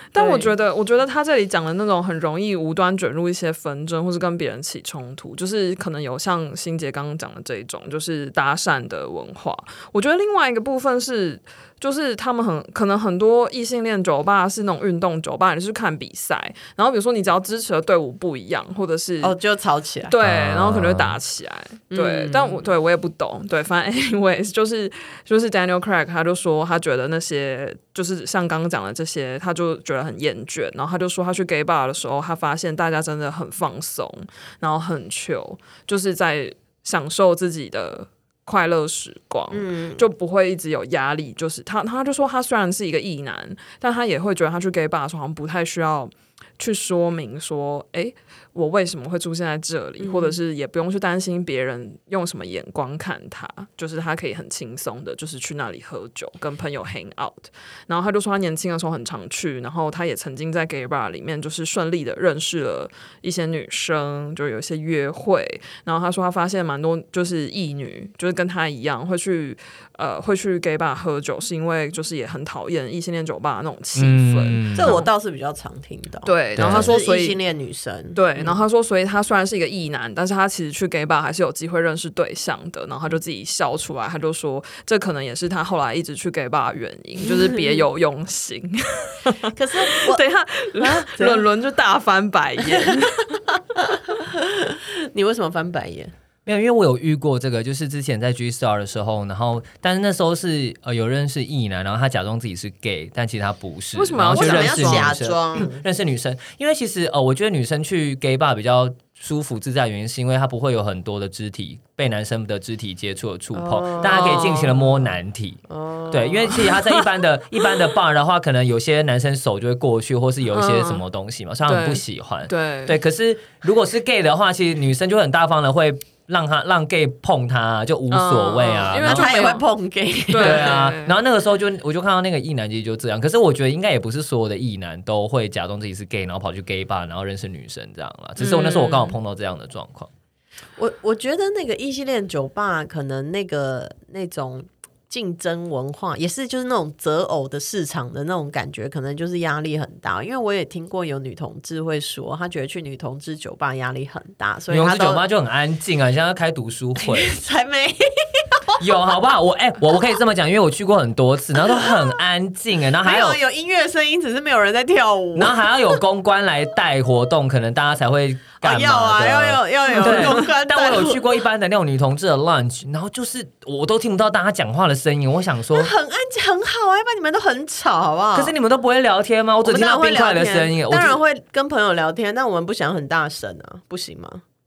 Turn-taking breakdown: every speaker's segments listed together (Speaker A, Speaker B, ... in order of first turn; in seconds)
Speaker A: 0.1-19.4, 20.1-75.1, 76.2-77.4, 78.2-93.4, 104.0-105.2, 114.0-115.1, 120.5-121.0, 121.7-123.0, 128.1-129.7, 130.3-131.1, 138.4-139.2
Speaker B: 0.2-0.5, 19.2-20.1, 21.9-22.6, 39.5-40.1, 50.0-50.4, 74.8-78.6, 87.2-87.8, 89.5-90.2, 90.8-91.5, 92.7-93.0, 93.7-96.1, 104.3-105.8, 113.5-114.5, 115.7-116.7, 129.0-130.9, 140.8-155.2, 157.0-158.8, 163.0-165.6, 168.6-171.2, 175.7-178.5, 179.6-184.4
Speaker C: 20.2-21.2, 74.0-75.0, 76.6-76.9, 96.5-129.3, 130.3-140.1, 154.7-157.3, 158.8-163.4, 165.3-175.9, 178.3-181.2